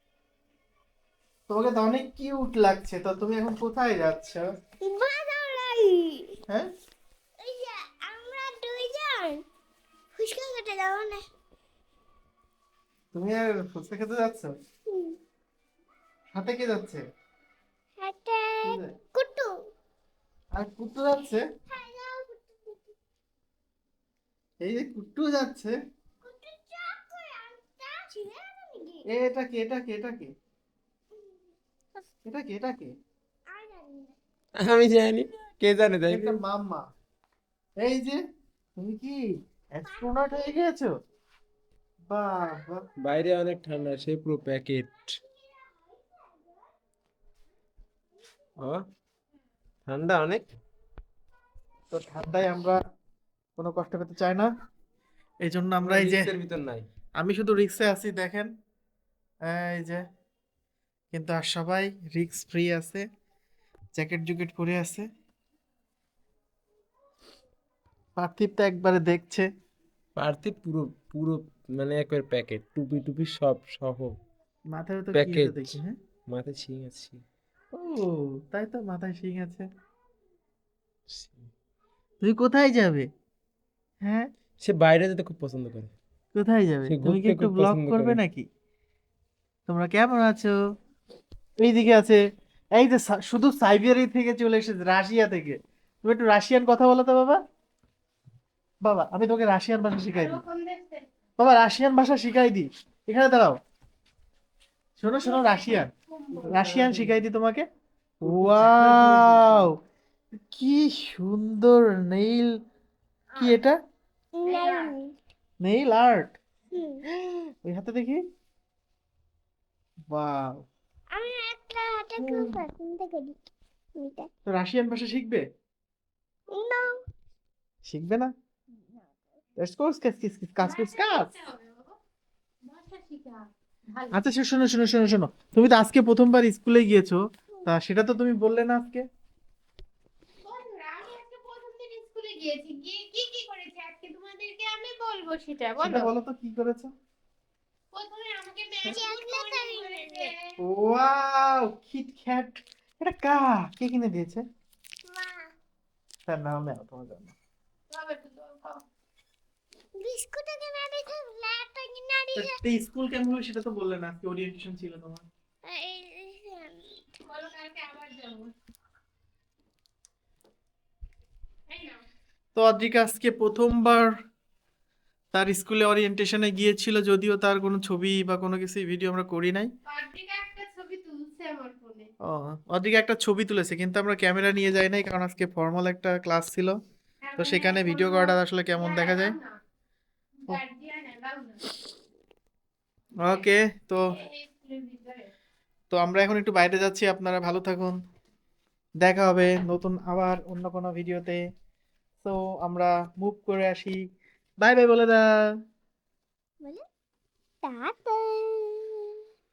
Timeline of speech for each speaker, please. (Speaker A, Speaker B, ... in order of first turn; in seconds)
Speaker A: 1.5-4.4, 13.1-14.5, 16.3-17.0, 18.6-18.9, 20.5-21.4, 24.6-25.7, 29.1-30.3, 32.2-32.9, 36.1-36.8, 37.8-38.2, 38.8-39.2, 39.7-40.9, 42.1-42.8, 51.9-52.8, 53.6-54.5, 55.4-56.3, 57.2-58.5, 59.5-60.0, 61.1-63.0, 63.9-65.0, 68.2-69.5, 74.7-76.0, 77.7-79.7, 82.2-83.1, 84.0-84.3, 86.3-88.5, 89.7-90.5, 91.6-92.2, 92.7-97.4, 98.8-100.4, 101.4-103.6, 105.0-107.6, 108.2-109.7, 110.5-112.5, 113.4-113.8, 115.6-116.4, 117.1-118.2, 120.1-120.7, 122.2-122.6, 124.5-125.4, 127.8-128.3, 129.6-131.3, 134.1-139.0, 145.8-146.9, 150.6-154.4, 156.2-157.3, 162.3-165.2, 172.5-174.1, 175.3-179.7, 182.2-186.7, 187.4-189.4, 193.2-194.0, 195.9-197.9, 199.0-201.4, 202.2-204.0, 204.6-205.3
Speaker B: 4.8-6.3, 7.4-9.4, 10.1-11.2, 14.9-15.2, 18.0-19.5, 21.7-22.8, 26.2-29.0, 33.5-34.1, 39.9-40.5, 45.3-46.2, 114.3-115.1, 116.7-117.0, 121.1-123.4, 124.0-124.3, 126.5-127.0, 148.8-150.3, 155.0-155.5, 160.0-162.6, 165.6-167.0, 207.6-209.2
Speaker C: 34.6-36.3, 43.0-45.1, 49.9-50.5, 55.8-56.9, 70.2-74.2, 75.1-75.8, 76.3-77.2, 81.1-81.4, 84.6-85.9, 86.9-88.2, 108.5-109.7
Speaker D: 100.1-101.0, 105.2-106.8, 113.3-113.6, 114.4-114.9, 130.6-131.9, 132.7-134.2, 140.4-146.1, 147.9-150.6, 157.9-158.8, 167.2-168.5, 171.7-172.0, 179.9-182.1, 187.2-189.5, 190.4-191.7, 194.1-195.3